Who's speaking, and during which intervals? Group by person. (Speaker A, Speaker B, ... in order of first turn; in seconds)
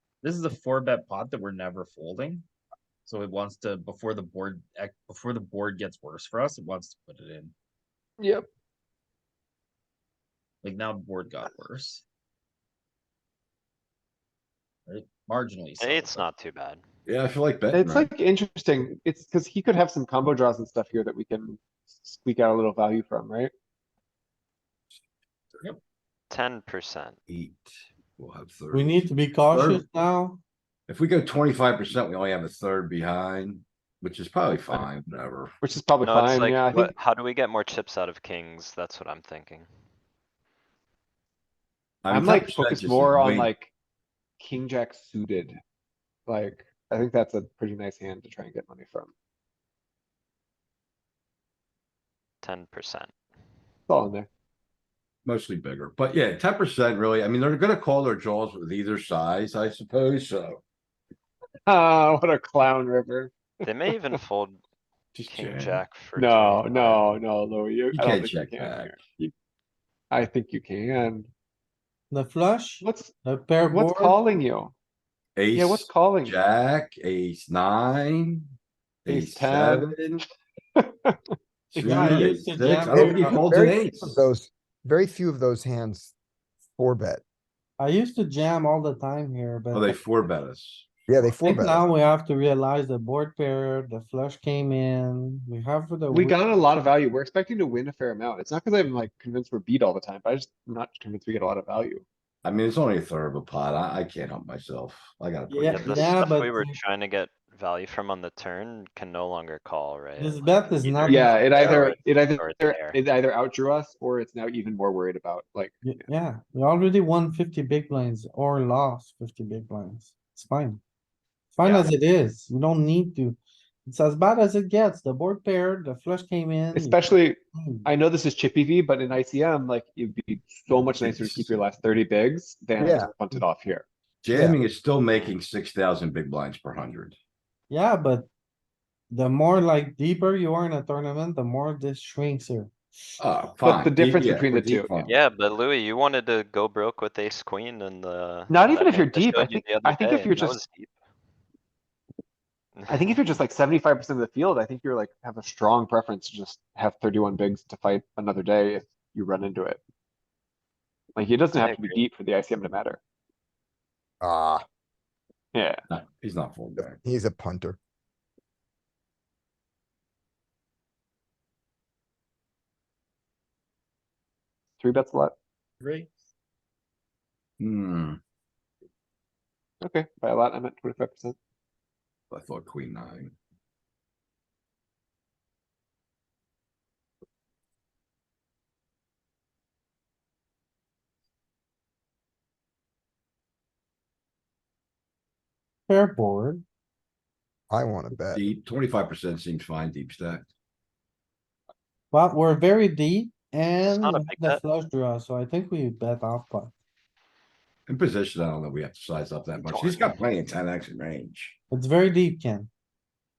Speaker A: 0.2-2.5, 3.0-7.5, 10.6-12.0, 14.9-16.3, 175.8-176.1
Speaker B: 8.2-8.5, 17.7-23.5, 35.6-36.9, 42.1-43.7, 44.4-45.6, 46.3-49.1, 53.9-54.3, 61.7-63.9, 66.2-69.3, 70.1-71.3, 72.8-73.1, 73.7-74.7, 75.5-76.3, 79.1-80.2, 80.8-82.2, 96.1-102.0, 111.0-116.0, 126.7-133.8, 143.6-144.9, 148.5-150.6, 152.9-159.8, 161.2-163.0, 165.5-165.8, 174.8-175.3, 179.8-181.3
Speaker C: 15.8-16.8, 26.3-27.2, 36.0-39.7, 52.4-53.1, 63.6-64.6, 65.1-67.2, 105.7-113.0, 121.6-121.9, 135.1-135.3, 145.0-150.9, 152.8-153.2, 161.6-162.0, 203.8-204.6, 209.6-210.2
Speaker D: 17.1-18.1, 24.9-25.6, 27.3-29.8, 30.9-35.6, 42.0-43.5, 55.2-60.6, 65.2-65.8, 67.9-69.0, 75.3-80.2, 81.7-84.2, 89.7-90.9, 102.4-106.1, 130.7-131.6, 134.2-137.2, 143.2-145.1, 165.9-167.0, 177.6-178.2, 182.3-183.3, 198.3-200.5, 207.9-211.6
Speaker E: 28.7-30.4, 72.1-74.2, 81.8-83.4, 87.8-90.0, 91.4-96.8, 105.5-106.7, 110.2-111.4, 115.8-120.8, 121.5-127.0, 127.5-127.8, 137.7-138.3, 139.1-143.2, 195.9-196.6, 202.1-206.7, 211.7-212.7
Speaker F: 82.9-86.1, 86.8-87.2, 91.1-91.8, 132.8-133.1, 134.3-134.6, 164.2-164.6, 166.8-167.8, 197.7-198.5